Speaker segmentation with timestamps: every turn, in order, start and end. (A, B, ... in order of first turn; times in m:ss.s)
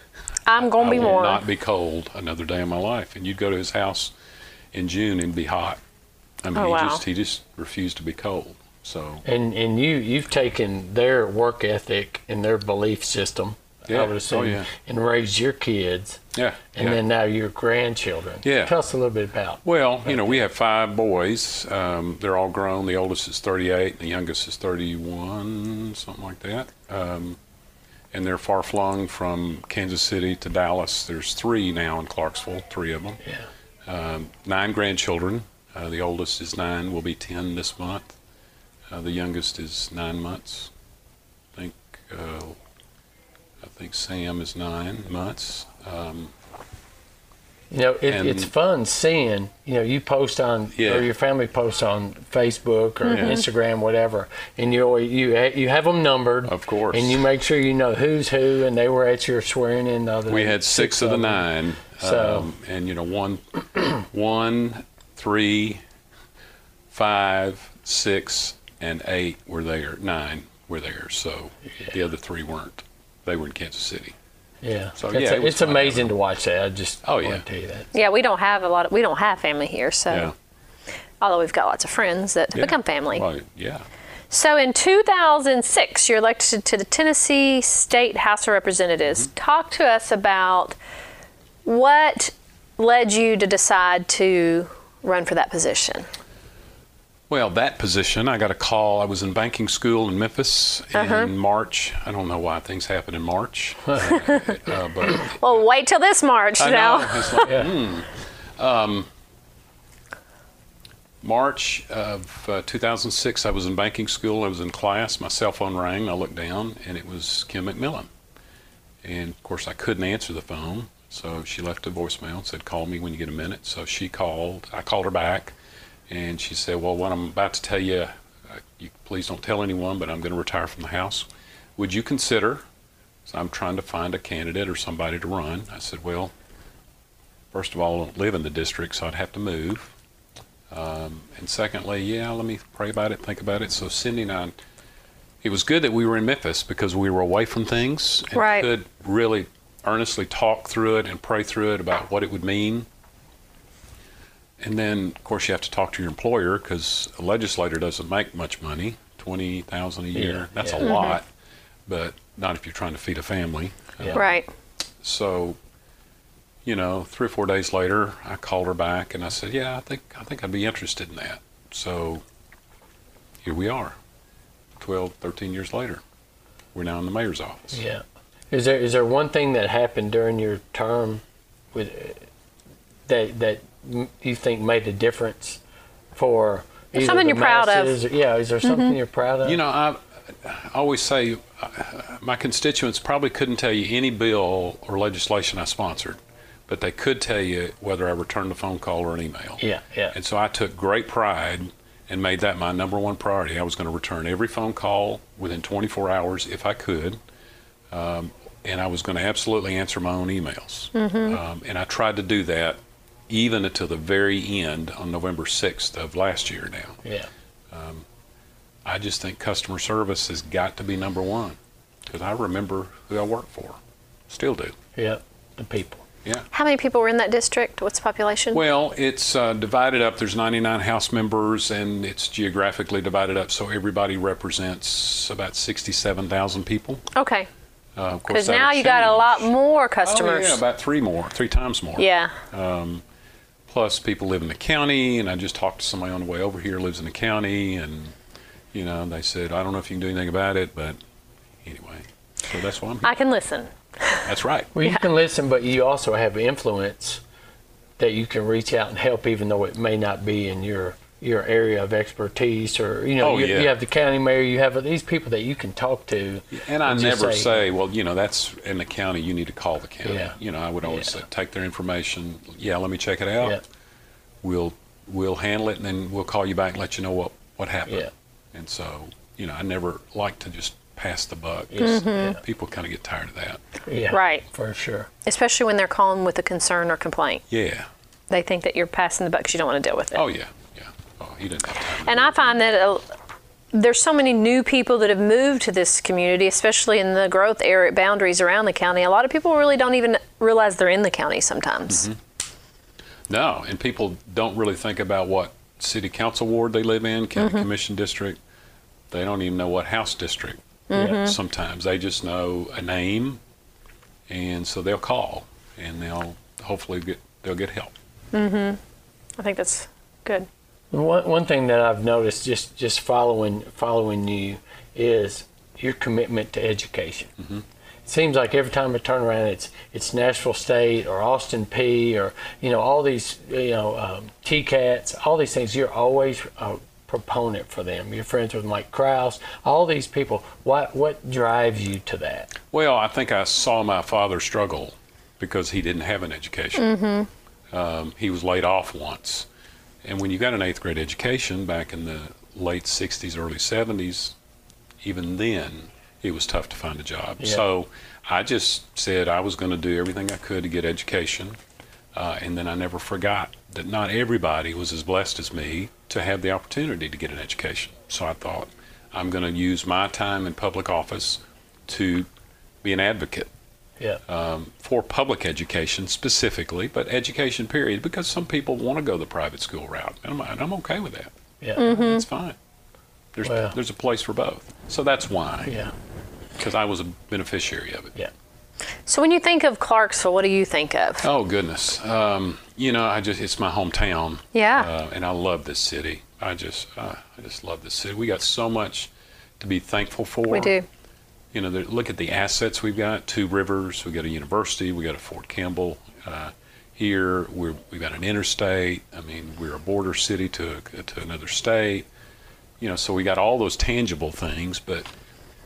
0:00.5-0:01.4 A
0:00.6-0:04.1 B
0:04.7-0:05.8 B
0:06.4-0:09.2 B
0:06.6-0:07.0 A
0:09.2-0:16.2 C
0:13.9-0:14.7 B
0:16.3-0:17.0 B
0:16.8-0:20.4 C
0:18.4-0:18.8 B
0:19.6-0:27.4 B
0:28.1-0:33.2 B
0:33.9-0:38.2 B
0:38.9-0:40.7 B
0:41.6-0:42.6 B
0:43.6-0:46.3 B
0:47.7-1:01.4 C
0:48.1-0:48.5 B
0:50.8-0:51.1 B
0:53.1-0:53.3 A
0:53.1-0:53.4 B
0:56.5-0:57.2 B
1:00.3-1:05.8 B
1:02.0-1:02.5 C
1:06.9-1:14.1 B
1:14.6-1:17.9 C
1:15.0-1:16.1 B
1:17.0-1:17.4 B
1:17.9-1:20.3 A
1:20.1-1:20.3 B
1:21.2-1:23.2 A
1:22.5-1:23.9 B
1:24.3-1:30.8 A
1:31.6-1:36.1 A
1:37.3-1:45.6 B
1:40.9-1:41.3 A
1:45.1-1:47.5 A
1:46.6-1:49.1 B
1:47.5-1:47.7 C
1:51.2-1:58.1 B
1:59.0-2:05.5 B
2:06.1-2:12.6 B
2:13.2-2:16.3 B
2:17.5-2:19.9 B
2:20.7-2:24.5 B
2:25.4-2:32.9 B
2:28.3-2:28.7 A
2:34.6-2:41.2 B
2:40.1-2:41.0 C
2:40.8-2:41.2 A
2:41.9-2:44.2 B
2:44.0-2:44.2 C
2:44.1-2:44.5 A
2:45.0-2:45.6 B
2:46.6-2:52.2 B
2:53.4-2:54.0 B
2:54.8-2:56.0 B
2:56.7-2:57.8 B
2:57.7-3:02.2 C
3:03.1-3:05.6 C
3:06.1-3:09.6 C
3:07.0-3:08.0 A
3:08.6-3:09.0 A
3:09.4-3:27.2 B
3:19.6-3:20.1 C
3:27.9-3:37.0 B
3:31.0-3:31.4 A
3:37.0-3:37.3 C
3:37.7-3:38.0 B
3:38.8-3:43.8 B
3:44.3-3:44.8 B
3:45.0-3:46.0 C
3:46.5-3:48.6 A
3:48.5-3:57.0 B
3:57.1-3:57.5 A
3:58.0-3:59.5 B
3:58.3-4:00.6 A
4:00.0-4:03.0 B
4:02.0-4:02.4 A
4:03.7-4:08.1 B
4:08.7-4:11.0 B
4:11.6-4:13.1 B
4:13.0-4:14.2 A
4:14.2-4:14.7 B
4:14.8-4:17.2 C
4:18.0-4:27.6 C
4:23.2-4:23.7 B
4:26.5-4:33.6 B
4:30.0-4:31.2 C
4:34.4-4:43.6 B
4:41.7-4:42.4 C
4:41.8-4:42.4 A
4:43.9-4:45.1 C
4:44.1-4:44.4 A
4:45.2-4:47.4 A
4:47.5-4:47.9 B
4:48.3-4:50.2 A
4:50.1-4:52.6 B
4:52.0-4:53.0 A
4:53.7-5:02.0 A
5:01.9-5:02.2 B
5:03.3-5:08.4 B
5:07.4-5:07.6 A
5:09.1-5:13.4 B
5:10.9-5:11.4 A
5:10.9-5:11.2 C
5:14.3-5:17.9 B
5:18.3-5:18.8 A
5:19.4-5:20.5 A
5:20.9-5:27.3 C
5:28.0-5:42.5 C
5:42.6-5:46.9 B
5:46.8-5:47.3 A
5:47.7-5:49.5 B
5:50.0-5:54.4 B
5:55.0-6:01.6 B
6:02.1-6:12.3 B
6:12.8-6:13.5 B
6:14.2-6:22.6 B
6:21.8-6:22.2 A
6:23.4-6:25.8 B
6:23.4-6:23.8 C
6:25.6-6:25.9 C
6:26.6-6:28.1 B
6:29.0-6:31.2 A
6:31.2-6:40.8 B
6:34.5-6:34.9 A
6:40.5-6:40.8 A
6:41.5-6:52.0 B
6:52.8-6:55.1 B